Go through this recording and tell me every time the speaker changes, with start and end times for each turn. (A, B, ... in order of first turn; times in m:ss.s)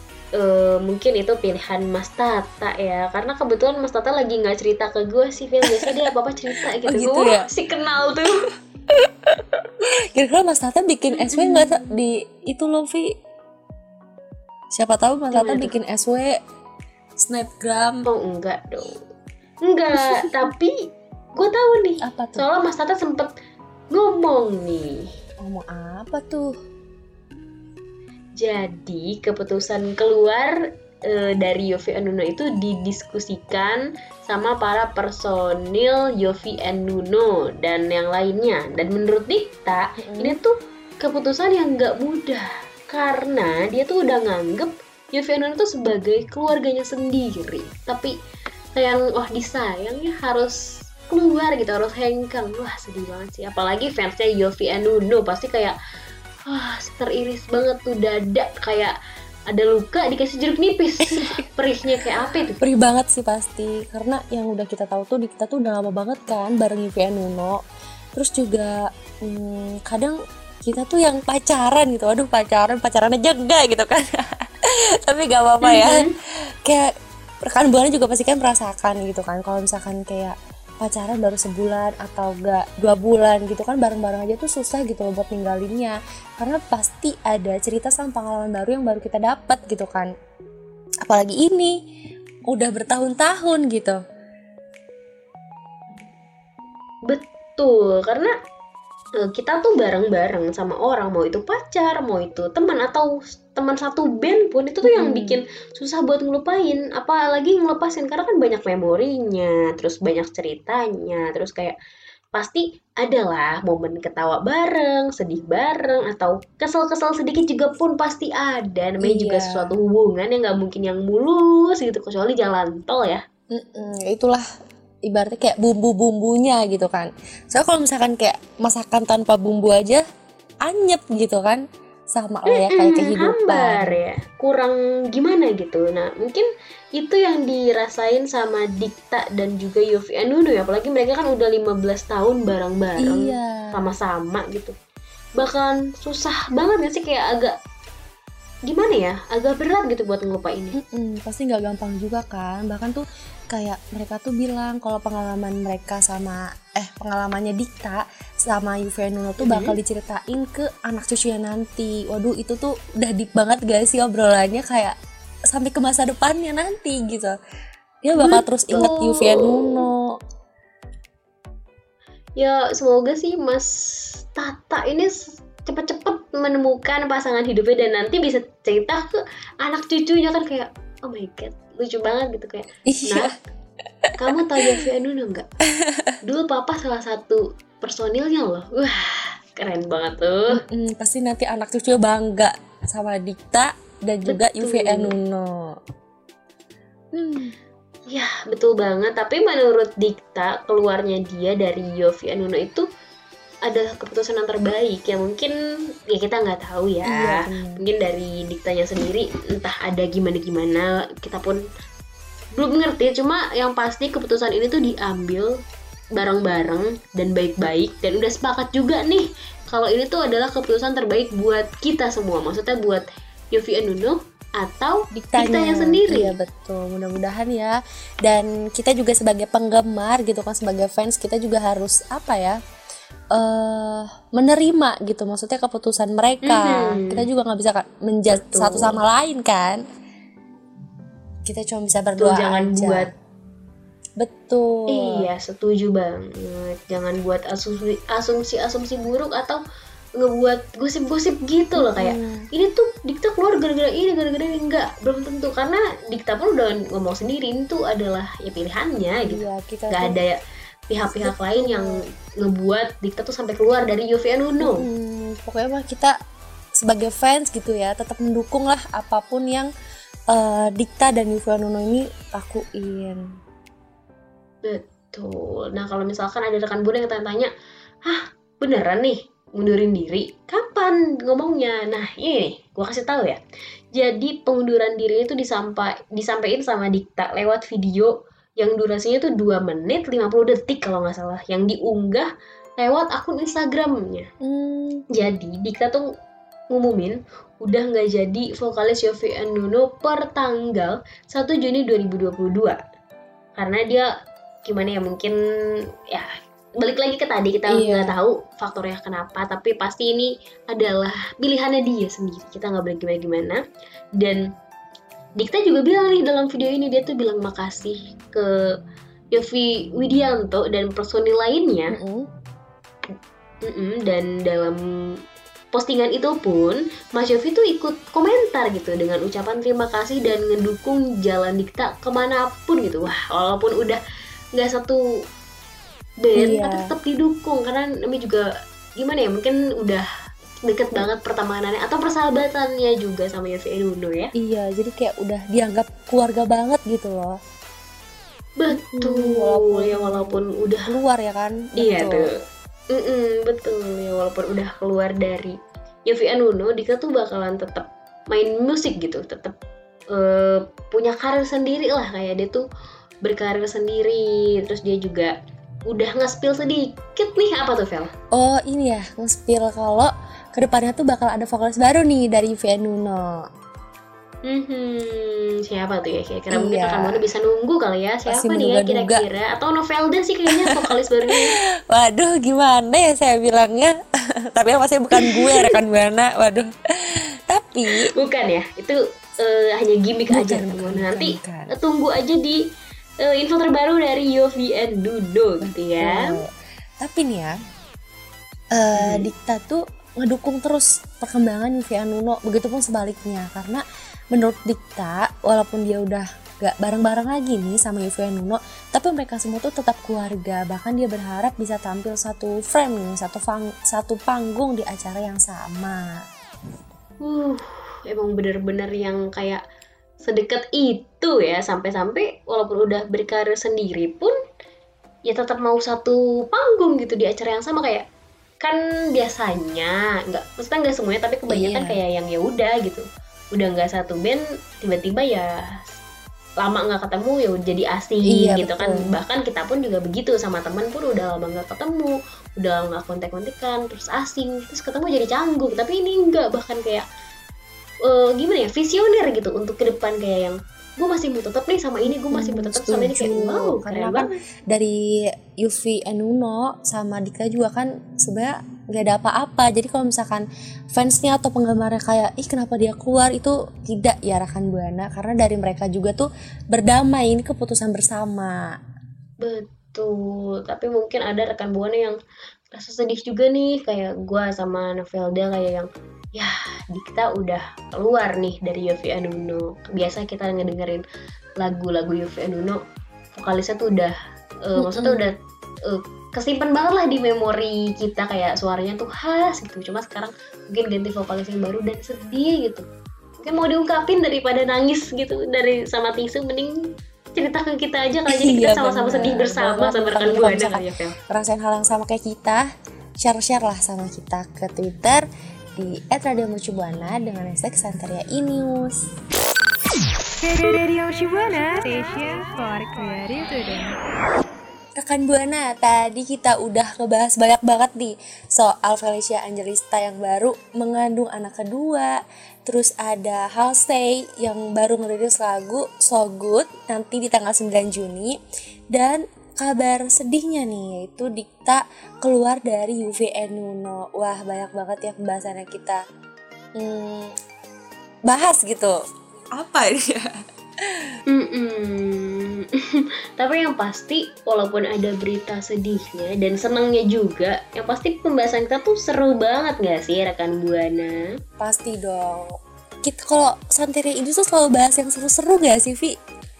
0:00.3-0:08.5 A
0:06.5-0:07.5 B
0:08.9-0:13.1 B
0:11.2-0:11.8 A
0:14.7-0:16.4 B
0:15.3-0:15.7 A
0:17.2-0:18.0 B
0:18.0-0:19.0 A
0:19.6-0:20.8 A
0:21.4-0:23.3 A
0:22.0-0:22.5 B
0:23.9-0:25.0 A
0:25.4-0:26.6 B
0:28.4-0:48.1 A
0:40.0-0:40.4 B
0:48.8-0:55.8 A
0:56.5-0:59.0 A
0:59.5-1:02.6 A
1:01.1-1:01.4 B
1:02.6-1:07.6 B
1:08.1-1:16.1 B
1:15.6-1:16.1 A
1:17.4-1:30.1 B
1:31.0-1:31.8 B
1:32.5-1:34.0 B
1:37.0-1:38.3 A
1:39.2-1:51.8 A
1:44.8-1:45.4 B
1:52.3-2:03.2 A
1:59.0-1:59.8 B
2:03.5-2:04.5 B
2:05.0-2:10.0 B
2:10.6-2:14.0 B
2:12.5-2:24.8 A
2:23.0-2:23.9 B
2:25.4-2:27.6 A
2:28.7-2:30.8 A
2:30.8-2:47.4 B
2:39.4-2:39.8 A
2:48.0-2:50.1 B
2:48.2-2:49.9 A
2:52.4-3:03.3 A
3:02.9-3:03.3 B
3:04.0-3:04.8 B
3:04.2-3:05.5 A
3:05.8-3:06.1 B
3:06.2-3:10.6 A
3:10.5-3:15.8 B
3:14.2-3:15.1 A
3:17.1-3:17.6 B
3:18.1-3:22.8 A
3:23.6-3:25.5 A
3:26.1-3:31.6 A
3:27.0-3:27.8 B
3:32.6-3:35.5 A
3:36.2-3:46.4 A
3:45.1-3:52.6 B
3:53.3-3:59.8 B
3:56.5-3:57.2 A
3:58.3-3:59.0 A
4:01.4-4:03.1 B
4:02.2-4:03.1 A
4:04.2-4:05.2 B
4:04.9-4:09.6 A
4:10.2-4:24.9 A
4:11.8-4:12.5 B
4:19.2-4:20.2 B
4:21.2-4:21.9 B
4:24.6-4:26.1 B
4:26.8-4:29.7 B
4:30.3-4:33.3 B
4:34.6-4:37.5 A
4:38.0-4:43.4 A
4:44.0-4:54.3 A
4:54.4-4:55.0 B
4:55.1-4:56.0 A
4:56.7-5:02.8 A
5:03.6-5:04.1 A
5:04.6-5:05.3 A
5:06.8-5:13.6 A
5:07.7-5:08.2 B
5:14.2-5:14.4 A
5:15.4-5:18.5 A
5:19.3-5:22.0 A
5:21.9-5:22.3 B
5:23.6-5:24.8 A
5:25.7-5:34.0 A
5:34.6-5:35.0 A
5:36.2-5:38.4 A
5:36.4-5:36.9 B
5:39.0-5:40.0 A
5:40.6-5:44.3 A
5:44.4-5:47.4 B
5:48.6-5:51.0 A
5:48.7-5:52.3 B
5:51.8-5:52.3 A
5:52.9-5:59.5 A
6:00.1-6:02.6 A
6:03.2-6:05.3 A
6:05.9-6:08.1 A
6:08.3-6:13.5 B
6:14.5-6:21.5 A
6:16.5-6:17.3 B
6:18.3-6:19.2 B
6:20.5-6:24.0 B
6:24.5-6:28.0 B
6:25.2-6:25.7 A
6:28.1-6:32.6 A
6:30.3-6:31.7 B
6:33.2-6:36.4 A
6:35.6-6:37.5 B
6:38.7-6:56.2 B
6:39.0-6:39.3 A
6:57.2-6:59.6 A
7:00.2-7:04.3 A
7:05.3-7:08.0 A
7:08.6-7:15.5 A
7:11.5-7:12.0 B
7:16.6-7:27.0 A
7:18.3-7:19.1 B
7:28.0-7:34.3 A
7:32.1-7:48.6 B
7:49.4-7:52.2 A
7:52.7-8:01.0 A
8:01.6-8:02.8 A
8:03.3-8:12.8 A
8:04.8-8:05.2 B
8:13.4-8:16.7 A
8:17.3-8:21.2 A
8:18.3-8:22.6 B
8:23.2-8:25.2 B
8:25.8-8:29.0 B
8:30.4-8:33.9 C
8:35.0-8:48.4 B
8:48.9-8:56.0 B
8:56.8-8:57.3 B
8:58.3-8:59.0 B
8:59.5-9:01.2 B
9:01.3-9:11.3 A
9:11.6-9:16.2 B